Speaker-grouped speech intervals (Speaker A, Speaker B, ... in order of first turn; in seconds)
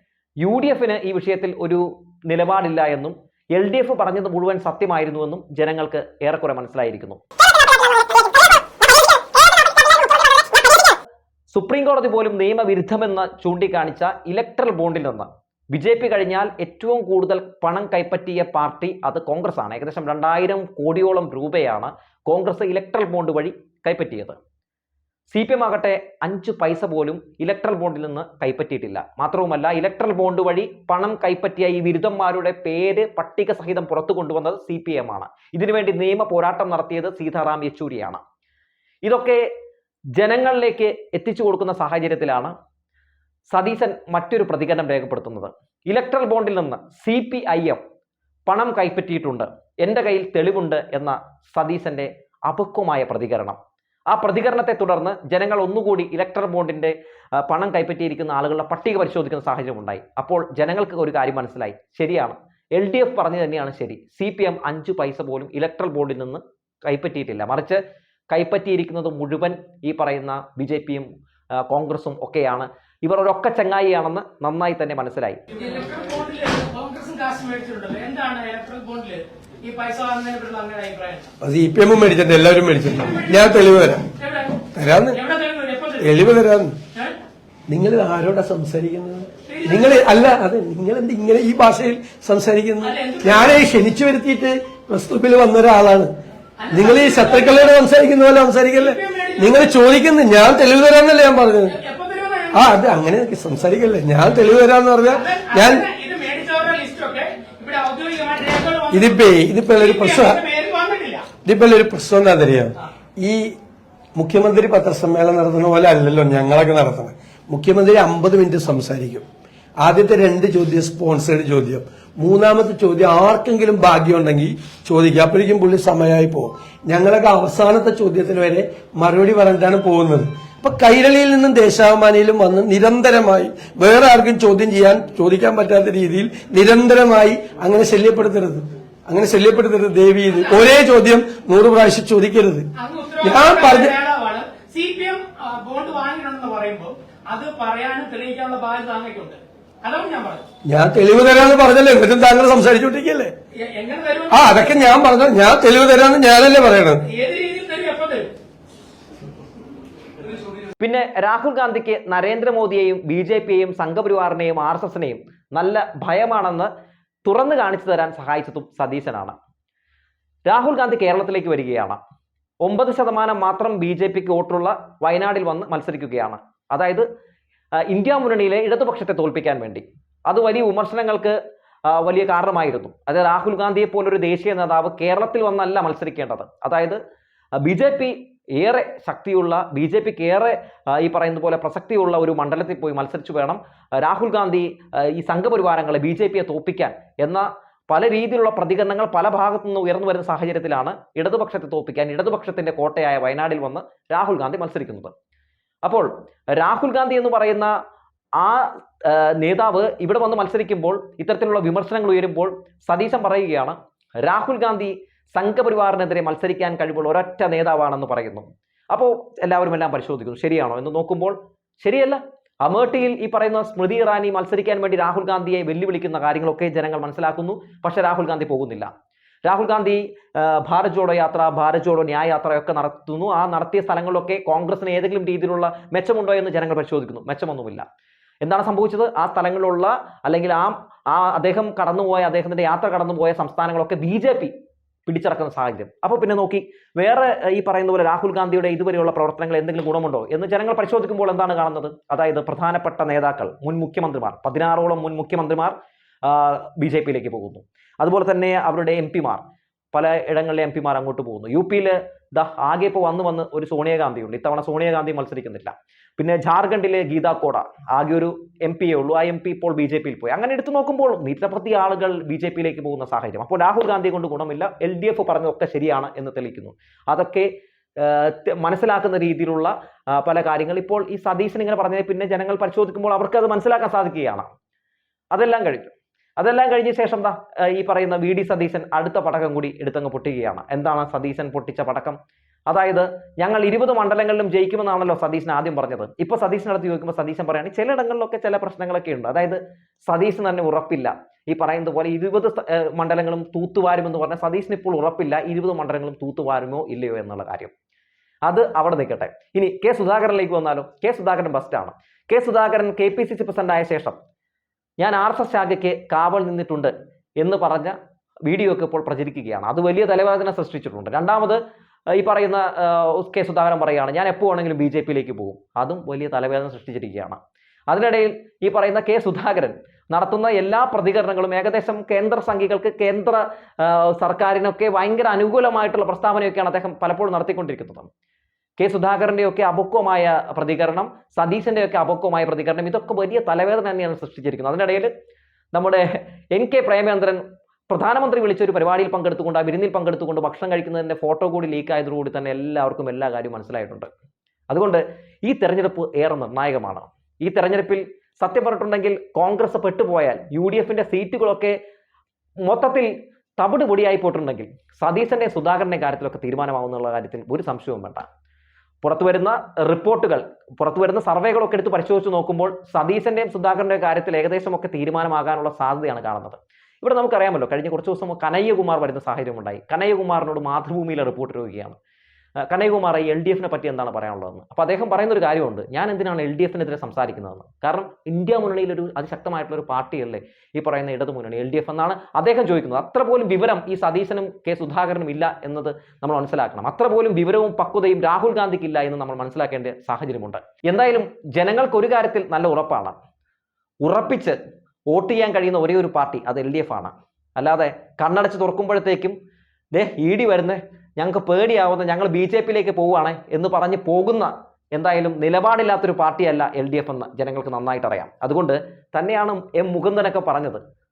Speaker A: 0.4-7.2, 11.5-24.4, 25.3-38.2, 39.0-39.4, 40.2-42.5, 43.5-47.8, 48.5-53.6, 54.1-56.9, 57.5-71.1, 71.7-75.4, 160.8-166.7, 167.3-169.4, 170.5-172.0, 172.6-177.1, 177.9-181.3, 181.9-187.0, 187.6-205.1, 205.8-207.7, 208.4-228.9, 229.5-237.8, 238.4-244.5, 245.1-259.4, 259.9-284.5, 285.3-307.7, 308.5-314.2, 315.0-317.9, 318.5-321.6, 322.1-338.1, 338.8-345.1, 345.7-354.1, 354.7-361.8, 362.7-368.2, 369.0-382.0, 382.7-403.2, 404.0-404.6, 405.1-409.4, 409.9-420.8
Speaker B: 75.5-81.3, 83.0-86.2, 89.5-90.2, 92.8-93.6, 96.6-97.8, 98.7-99.7, 101.7-102.8, 105.1-111.3, 140.3-140.6, 142.8-150.4, 153.6-154.6, 157.1-158.3
Speaker C: 81.4-84.1, 84.8-85.2, 86.0-86.8, 87.7-96.1, 96.7-101.7, 102.5-105.9, 108.9-110.4, 111.5-113.5, 114.2-119.2, 119.8-142.7, 143.2-143.9, 150.7-153.3, 154.3-157.0